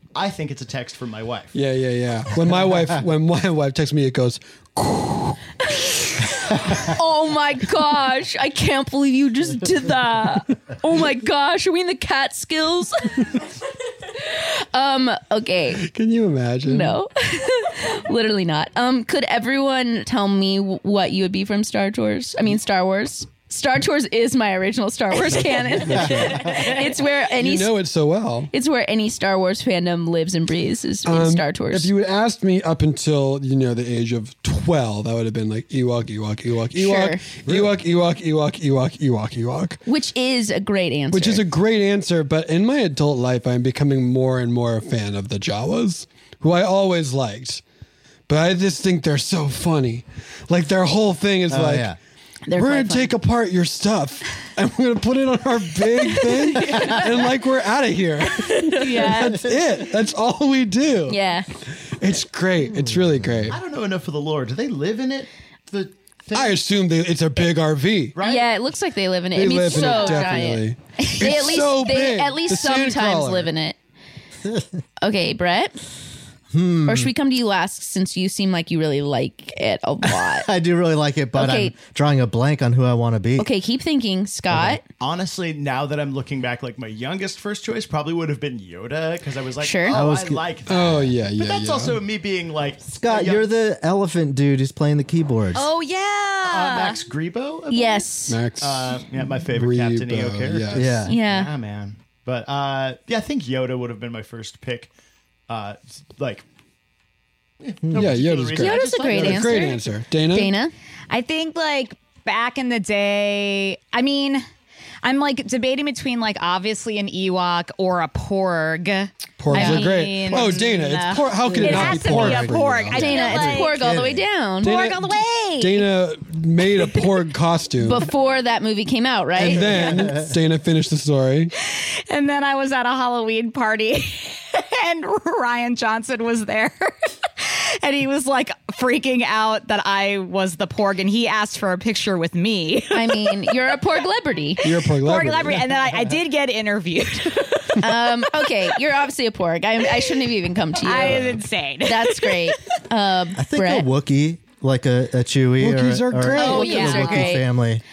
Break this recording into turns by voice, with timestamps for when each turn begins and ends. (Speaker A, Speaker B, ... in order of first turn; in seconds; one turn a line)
Speaker A: 0.1-1.5
Speaker B: 1.5-5.4
Speaker C: 5.6-13.4
Speaker C: 14.2-15.8
Speaker B: 15.8-17.0
Speaker C: 16.6-27.8
Speaker B: 25.1-28.5
Speaker C: 28.5-31.9
Speaker B: 31.0-39.8
Speaker C: 36.7-37.3
Speaker C: 39.9-41.4
Speaker B: 41.1-47.6
Speaker B: 48.3-51.9
Speaker D: 51.5-52.0
Speaker C: 52.5-53.1
Speaker B: 52.5-61.2
Speaker C: 56.0-57.1
Speaker C: 58.4-59.5
Speaker C: 61.1-61.5
Speaker B: 61.8-63.6
Speaker A: 63.5-66.6
Speaker B: 66.3-68.2
Speaker A: 68.1-68.5
Speaker C: 68.2-73.8
Speaker B: 69.3-73.5
Speaker E: 69.7-70.5
Speaker C: 75.0-75.7
Speaker D: 76.5-77.1
Speaker C: 76.8-80.5
Speaker D: 80.2-83.5
Speaker C: 81.3-81.7
Speaker C: 83.4-84.8
Speaker D: 84.5-84.8
Speaker A: 85.0-93.5
Speaker C: 89.6-90.0
Speaker D: 89.9-90.5
Speaker B: 90.7-92.0
Speaker D: 92.8-95.7
Speaker E: 95.5-97.0
Speaker A: 96.4-104.9
Speaker C: 97.7-98.4
Speaker B: 98.3-101.1
Speaker D: 100.7-101.1
Speaker C: 101.1-101.5
Speaker A: 105.5-106.4
Speaker A: 107.6-109.8
Speaker D: 107.8-108.2
Speaker B: 107.9-110.5
Speaker C: 108.5-110.7
Speaker E: 111.1-114.4
Speaker E: 115.0-123.9
Speaker B: 119.4-123.4
Speaker C: 119.5-120.0
Speaker D: 121.5-122.5
Speaker C: 122.9-124.7
Speaker D: 123.6-124.2
Speaker E: 124.6-125.9
Speaker B: 124.6-128.1
Speaker C: 127.8-129.9
Speaker B: 129.3-131.5
Speaker D: 129.4-130.3
Speaker E: 131.6-143.8
Speaker C: 142.9-144.6
Speaker B: 144.6-145.7
Speaker E: 144.6-147.8
Speaker C: 147.8-151.2
Speaker E: 150.8-152.6
Speaker B: 151.1-151.4
Speaker C: 151.8-153.9
Speaker D: 153.3-157.8
Speaker B: 155.6-157.3
Speaker E: 156.4-157.3
Speaker C: 156.4-157.4